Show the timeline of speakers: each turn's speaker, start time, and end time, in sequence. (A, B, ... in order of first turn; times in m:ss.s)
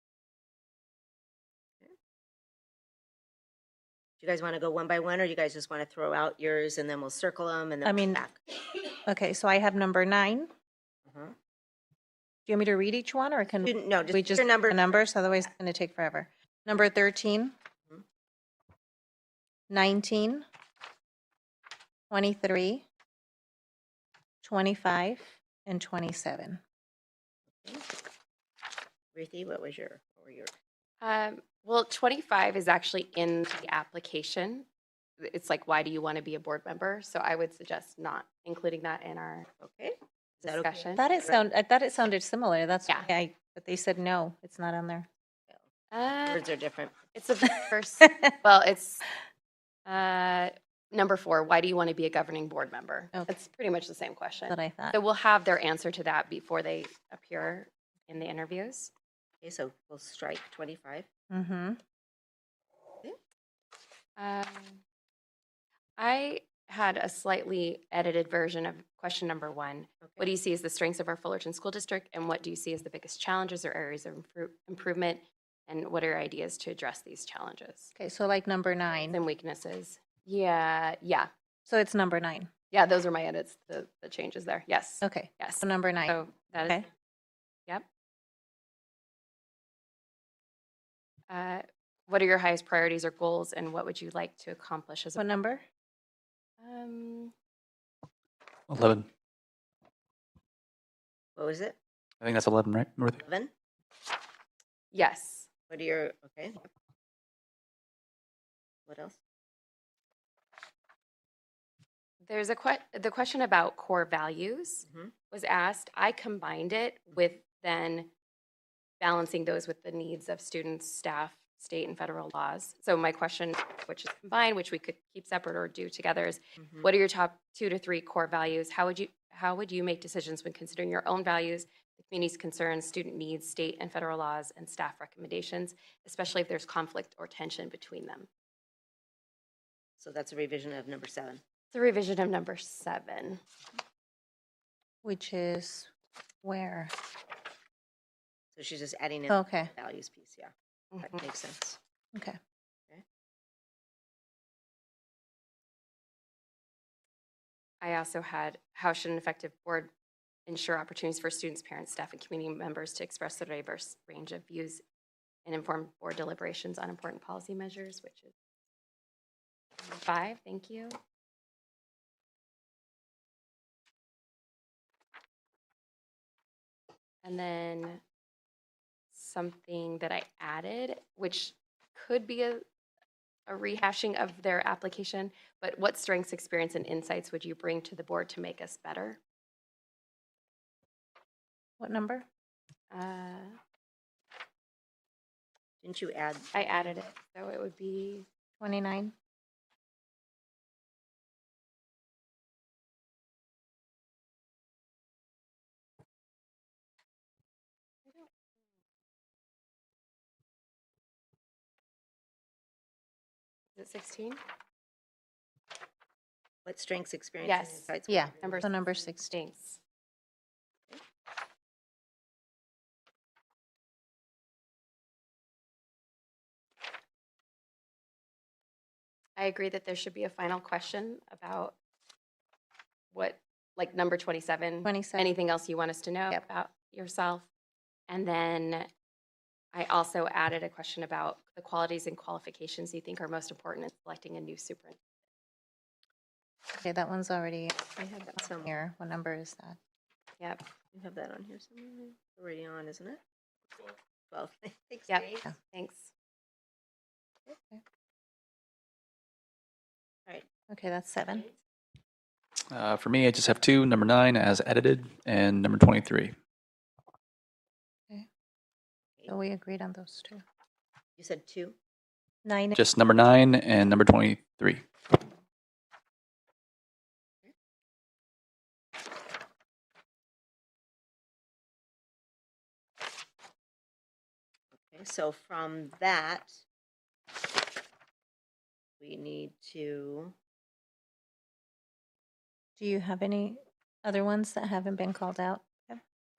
0:04.2-0:08.4 A
0:07.8-0:08.2 B
0:09.0-0:10.5 B
0:11.1-0:11.4 A
0:12.5-0:17.5 B
0:13.6-0:15.0 A
0:19.7-0:20.4 B
0:22.1-0:22.8 B
0:24.4-0:26.6 B
0:27.6-0:27.9 A
0:29.1-0:30.5 A
0:31.0-0:34.7 C
0:35.2-0:39.5 C
0:39.6-0:41.4 A
0:40.4-0:41.0 C
0:40.9-0:45.1 B
0:45.9-0:46.4 C
0:46.2-0:47.0 A
0:47.1-0:49.0 C
0:49.8-0:58.9 C
0:54.5-0:55.0 B
0:59.4-1:01.1 A
1:01.3-1:01.8 B
1:04.2-1:04.8 C
1:06.0-1:17.9 C
1:18.0-1:19.2 B
1:19.1-1:21.3 C
1:21.7-1:22.5 B
1:22.7-1:26.8 C
1:25.0-1:26.8 B
1:31.3-1:35.2 C
1:35.2-1:35.6 B
1:36.6-1:37.3 C
1:38.7-1:39.1 D
1:41.4-1:41.8 A
1:42.2-1:43.2 D
1:43.2-1:43.5 A
1:44.9-1:45.5 C
1:45.7-1:46.7 A
1:48.8-1:49.2 A
1:52.2-1:58.1 C
1:59.0-2:18.3 C
2:06.6-2:06.8 A
2:20.0-2:21.4 A
2:21.7-2:23.4 C
2:25.0-2:25.9 B
2:26.4-2:26.9 B
2:28.5-2:31.8 A
2:29.3-2:29.7 B
2:30.9-2:31.2 C
2:37.8-2:39.9 C
2:40.5-2:44.8 C
2:45.4-2:48.3 C
2:49.8-2:50.9 C
2:57.2-2:58.0 C
2:59.1-3:02.6 C
3:03.5-3:09.2 C
3:11.8-3:12.2 B
3:12.9-3:13.6 C
3:15.8-3:16.5 A
3:16.5-3:18.2 C
3:18.6-3:19.1 B
3:33.7-3:34.4 C
3:36.6-3:38.7 A
3:37.4-3:39.8 C
3:38.1-3:39.4 B
3:49.4-3:51.8 C
3:53.1-3:57.5 C
3:54.8-3:55.3 B
3:58.1-3:58.9 C
3:59.7-4:05.0 C
4:06.8-4:09.8 B
4:07.9-4:08.7 A
4:10.9-4:13.2 A
4:14.3-4:15.4 A
4:15.1-4:16.1 C
4:17.5-4:17.8 B
4:20.7-4:21.5 B
4:22.7-4:26.4 D
4:29.3-4:30.4 B
4:31.2-4:31.8 A
4:32.4-4:32.8 B
4:32.8-4:34.8 D
4:44.7-4:46.6 A
4:49.0-4:50.3 A
4:52.8-4:56.0 B